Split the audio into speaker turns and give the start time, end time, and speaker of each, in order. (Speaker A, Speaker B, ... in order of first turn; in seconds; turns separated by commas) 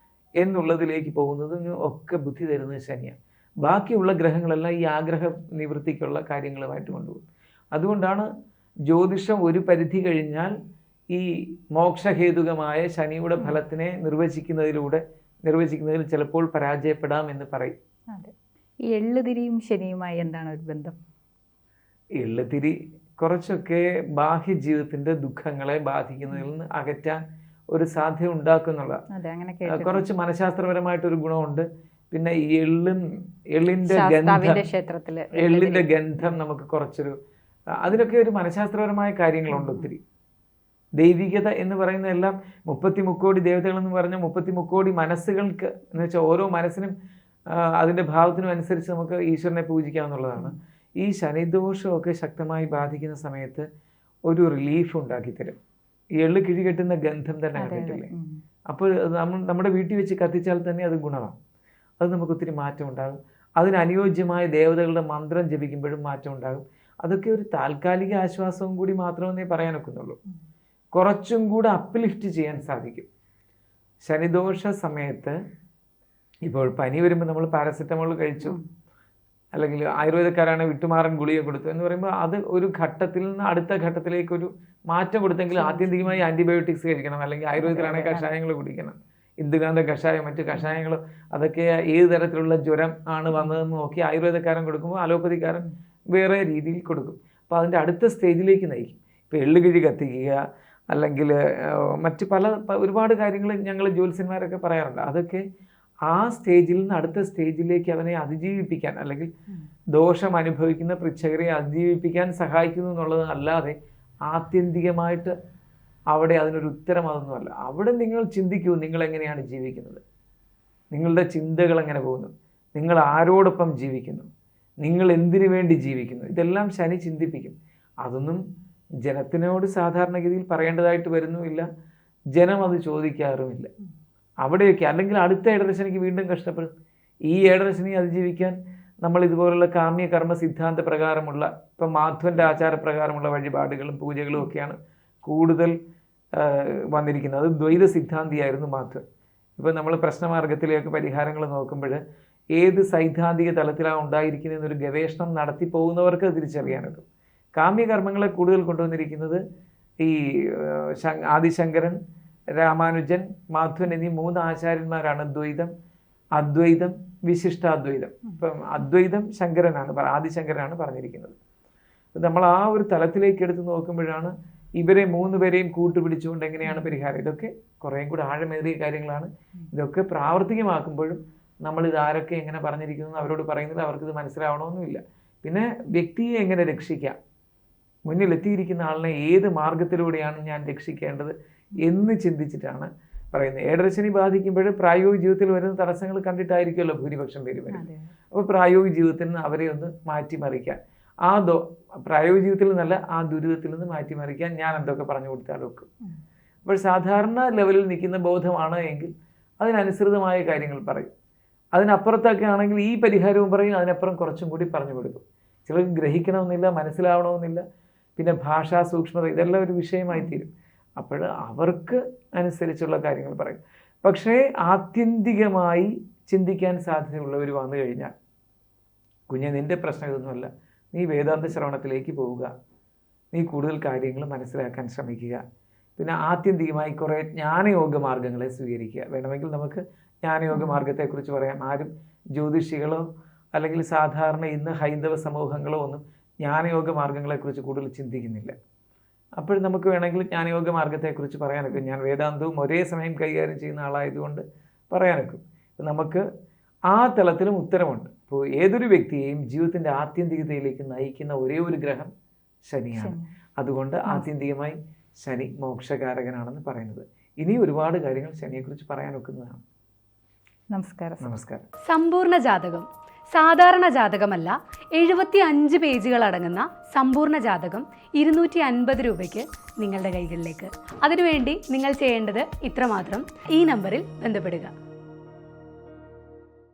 Speaker A: 0.4-7.2, Speaker A: 7.7-8.3, Speaker A: 8.9-10.5, Speaker A: 11.1-17.7, Speaker B: 18.9-21.0, Speaker A: 22.2-27.2, Speaker A: 27.7-29.0, Speaker B: 29.1-30.1, Speaker A: 29.7-33.0, Speaker A: 33.5-34.6, Speaker B: 33.8-35.9, Speaker A: 35.4-37.1, Speaker A: 37.8-40.0, Speaker B: 39.5-39.9, Speaker A: 41.0-46.9, Speaker A: 47.8-53.6, Speaker A: 54.3-55.6, Speaker A: 56.2-58.1, Speaker B: 57.5-58.4, Speaker A: 58.7-61.4, Speaker A: 62.0-70.2, Speaker A: 71.0-73.1, Speaker A: 74.0-75.3, Speaker A: 76.5-78.6, Speaker A: 79.5-100.4, Speaker B: 85.5-86.2, Speaker B: 87.6-88.3, Speaker B: 93.3-93.6, Speaker A: 100.9-105.4, Speaker A: 106.1-109.3, Speaker A: 109.9-113.8, Speaker A: 114.3-115.3, Speaker A: 116.1-120.0, Speaker A: 120.9-124.3, Speaker A: 124.8-128.4, Speaker A: 129.0-131.7, Speaker A: 132.3-133.7, Speaker A: 134.4-136.7, Speaker A: 137.3-145.7, Speaker A: 146.3-149.0, Speaker A: 149.6-152.0, Speaker A: 152.6-157.1, Speaker A: 157.6-159.4, Speaker A: 160.0-162.0, Speaker A: 162.6-165.7, Speaker A: 166.3-171.3, Speaker A: 172.1-187.2, Speaker B: 176.6-176.9, Speaker A: 188.1-205.9, Speaker B: 197.7-198.1, Speaker A: 206.7-211.1, Speaker A: 211.7-217.6, Speaker A: 218.2-228.1, Speaker B: 220.1-220.4, Speaker A: 229.3-232.5, Speaker A: 233.3-235.4, Speaker A: 236.0-243.0, Speaker B: 240.5-240.9, Speaker A: 243.5-248.5, Speaker A: 249.4-256.2, Speaker A: 256.9-262.1, Speaker A: 262.7-269.6, Speaker B: 262.9-263.3, Speaker B: 270.7-271.2, Speaker A: 271.2-271.6, Speaker C: 271.9-284.7